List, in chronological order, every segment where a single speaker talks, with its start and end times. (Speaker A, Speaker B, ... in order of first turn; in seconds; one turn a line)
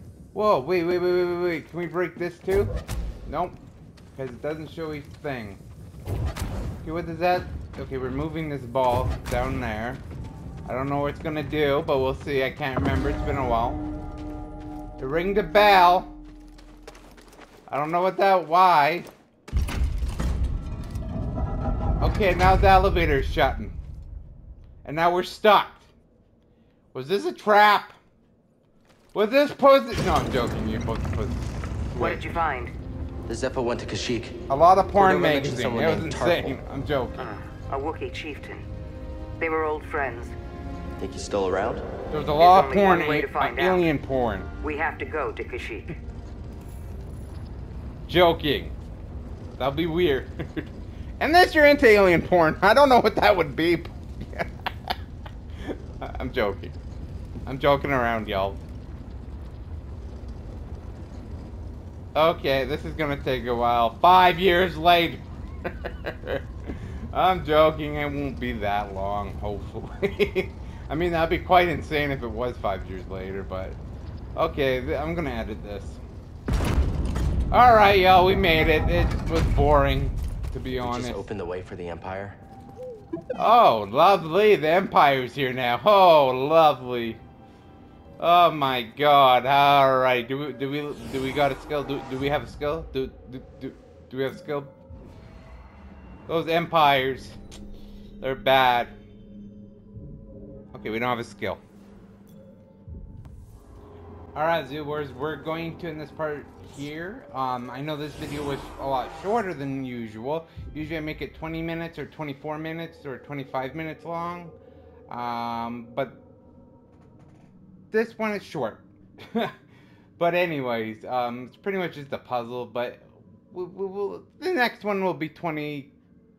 Speaker A: 0.3-2.7
Speaker A: 3.2-3.5
Speaker A: 4.2-5.6
Speaker A: 6.8-10.0
Speaker A: 10.7-13.8
Speaker A: 15.0-16.1
Speaker A: 17.7-19.1
Speaker A: 22.0-23.8
Speaker A: 24.8-25.9
Speaker A: 26.9-27.9
Speaker A: 29.1-32.2
Speaker B: 32.0-32.7
Speaker C: 33.3-34.4
Speaker A: 34.5-37.3
Speaker C: 35.0-36.6
Speaker B: 37.2-38.7
Speaker B: 39.4-40.3
Speaker C: 41.0-41.8
Speaker A: 42.1-44.5
Speaker B: 42.4-43.9
Speaker B: 44.6-45.9
Speaker A: 48.1-48.7
Speaker A: 49.6-50.7
Speaker A: 51.2-54.9
Speaker A: 55.6-56.8
Speaker A: 57.5-58.6
Speaker A: 62.1-73.8
Speaker A: 74.4-76.0
Speaker A: 77.5-81.2
Speaker C: 80.8-82.4
Speaker A: 83.4-87.2
Speaker A: 88.2-94.7
Speaker A: 96.3-97.4
Speaker A: 98.2-98.9
Speaker A: 100.7-101.6
Speaker A: 104.3-114.5
Speaker A: 115.1-116.2
Speaker A: 117.9-119.5
Speaker A: 120.2-125.9